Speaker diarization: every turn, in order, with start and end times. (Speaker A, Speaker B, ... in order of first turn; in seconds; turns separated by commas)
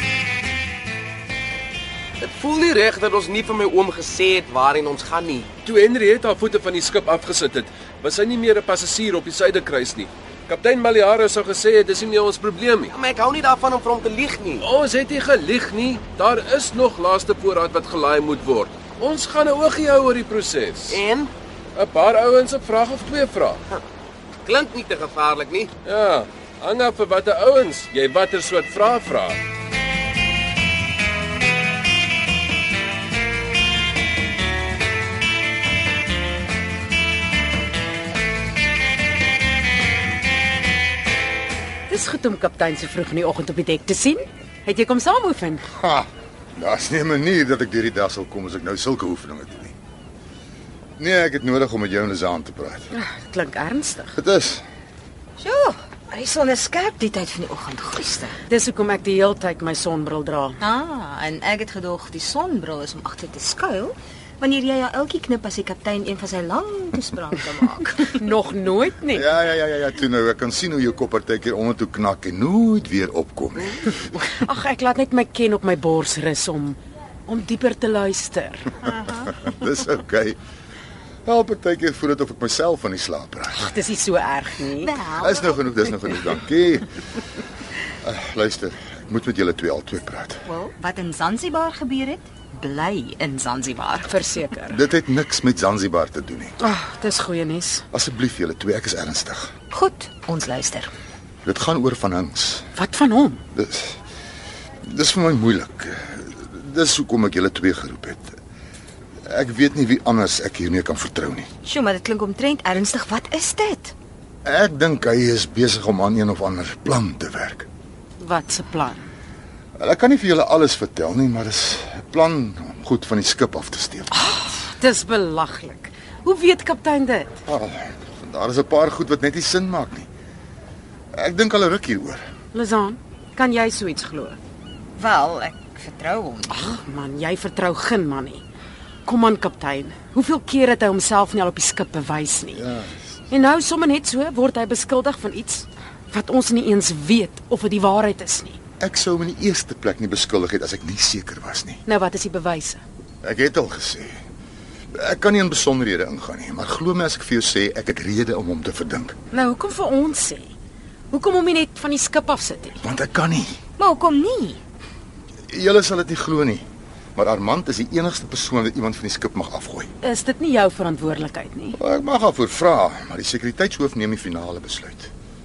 Speaker A: 2.2-5.5, Speaker B: 5.7-12.9, Speaker A: 12.9-14.7, Speaker B: 14.6-21.0, Speaker A: 20.9-21.3, Speaker B: 21.8-23.6, Speaker A: 24.4-25.7, Speaker B: 25.9-29.4, Speaker C: 41.9-45.6, Speaker D: 45.7-49.8, Speaker D: 51.0-52.9, Speaker C: 52.9-54.2, Speaker D: 54.2-54.6, Speaker E: 55.4-58.4, Speaker C: 58.5-60.6, Speaker E: 60.6-68.2, Speaker C: 68.1-69.3, Speaker D: 69.1-74.2, Speaker C: 74.3-78.9, Speaker D: 79.0-80.4, Speaker D: 81.3-83.7, Speaker C: 83.5-84.9, Speaker E: 84.8-85.6, Speaker D: 85.1-87.1, Speaker D: 88.0-90.4, Speaker E: 90.5-94.1, Speaker C: 94.1-94.8, Speaker D: 94.7-96.6, Speaker C: 96.6-97.8, Speaker D: 97.9-99.5, Speaker E: 99.7-100.9, Speaker D: 101.5-102.6, Speaker C: 102.8-103.4, Speaker D: 103.5-104.0, Speaker D: 104.8-108.4, Speaker D: 109.3-111.5, Speaker E: 111.7-113.9, Speaker D: 114.5-117.7, Speaker C: 118.2-119.1, Speaker D: 119.8-124.3, Speaker C: 124.1-127.4, Speaker D: 127.5-130.1, Speaker D: 131.2-132.2, Speaker C: 132.5-134.4, Speaker E: 135.0-136.8, Speaker C: 136.5-138.4, Speaker C: 139.1-142.6, Speaker D: 142.5-143.0, Speaker C: 143.3-148.6, Speaker D: 148.8-151.8, Speaker C: 151.8-152.8, Speaker D: 153.2-154.2, Speaker D: 154.9-159.2, Speaker C: 159.3-160.5, Speaker C: 161.1-162.8, Speaker D: 162.8-163.6, Speaker E: 163.8-164.6, Speaker D: 165.5-166.6, Speaker D: 167.2-169.9, Speaker C: 170.0-171.8, Speaker D: 171.8-175.1